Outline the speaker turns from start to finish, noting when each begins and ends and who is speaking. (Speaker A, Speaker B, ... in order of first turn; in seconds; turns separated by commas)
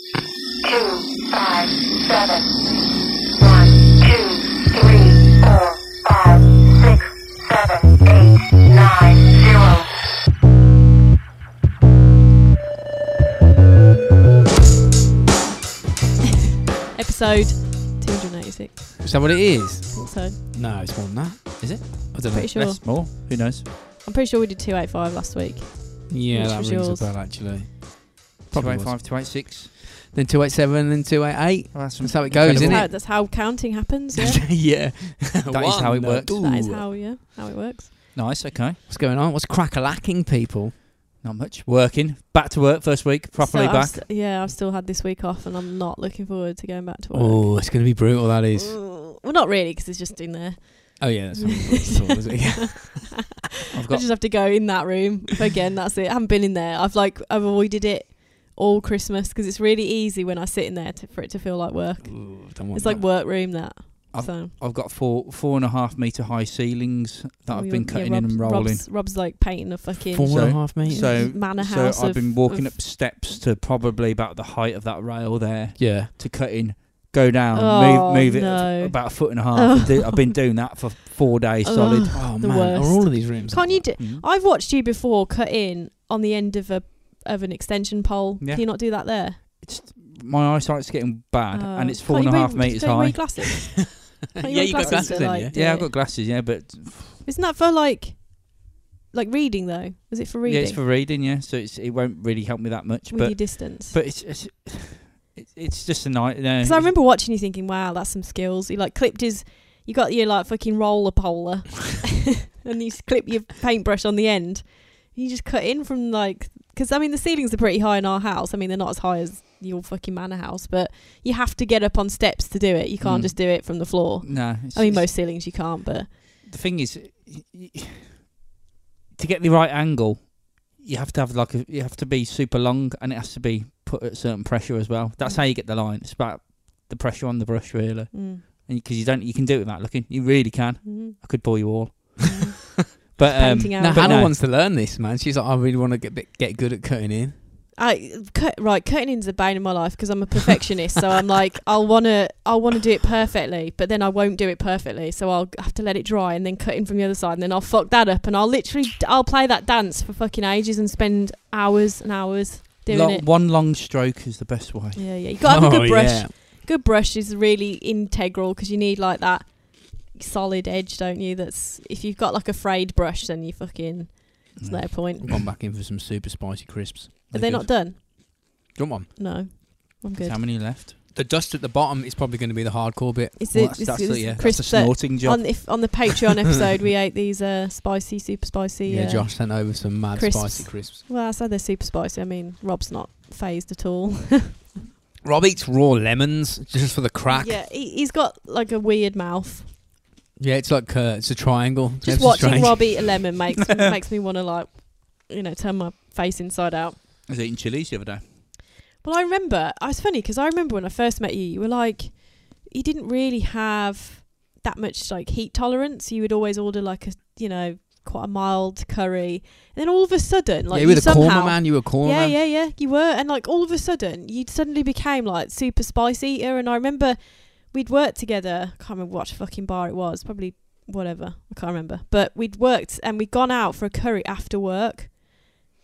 Speaker A: 0.6-2.5, Speaker A: 3.4-9.9, Speaker B: 16.9-19.3, Speaker C: 19.0-22.5, Speaker B: 19.9-20.4, Speaker D: 21.6-23.6, Speaker B: 22.3-23.0, Speaker B: 24.0-27.1, Speaker C: 26.1-29.2, Speaker D: 28.5-29.7, Speaker C: 30.1-32.9, Speaker D: 31.7-32.9, Speaker B: 32.5-34.4, Speaker C: 34.1-36.9, Speaker D: 35.5-36.3, Speaker B: 36.4-37.9, Speaker D: 38.1-38.8, Speaker C: 38.9-40.8, Speaker D: 41.2-44.0, Speaker B: 43.4-48.0, Speaker C: 47.1-48.7, Speaker B: 48.5-53.3, Speaker C: 51.0-53.2, Speaker D: 53.7-54.2, Speaker B: 53.9-64.5, Speaker C: 62.0-63.0, Speaker D: 64.1-68.8, Speaker B: 67.5-72.8, Speaker C: 70.1-71.2, Speaker D: 70.3-82.1, Speaker C: 75.8-76.1, Speaker B: 77.5-80.4, Speaker B: 81.6-89.4, Speaker C: 82.1-83.9, Speaker D: 84.0-84.2, Speaker D: 88.4-93.2, Speaker B: 91.5-95.9, Speaker C: 94.3-95.5, Speaker D: 94.8-97.2, Speaker B: 97.2-100.8, Speaker D: 100.5-106.9, Speaker B: 103.1-104.0, Speaker B: 106.6-126.1, Speaker D: 123.0-125.1, Speaker D: 126.4-128.3, Speaker D: 129.1-144.3, Speaker B: 138.1-138.4, Speaker B: 140.8-141.2, Speaker B: 142.3-144.3, Speaker C: 143.8-147.3, Speaker B: 147.8-163.3, Speaker D: 162.9-165.1, Speaker B: 164.9-175.3, Speaker C: 165.4-166.3, Speaker D: 174.6-174.9, Speaker C: 175.2-178.0, Speaker D: 177.3-177.7, Speaker B: 177.3-178.4, Speaker C: 178.7-179.1, Speaker B: 179.2-180.4, Speaker D: 180.2-180.9, Speaker C: 181.1-183.4, Speaker B: 183.4-194.7, Speaker D: 183.5-185.9, Speaker C: 188.8-191.0, Speaker C: 195.2-197.6, Speaker B: 197.3-199.7, Speaker C: 200.4-203.2, Speaker B: 202.0-207.0, Speaker D: 207.3-208.2, Speaker B: 209.0-235.5, Speaker C: 220.7-222.4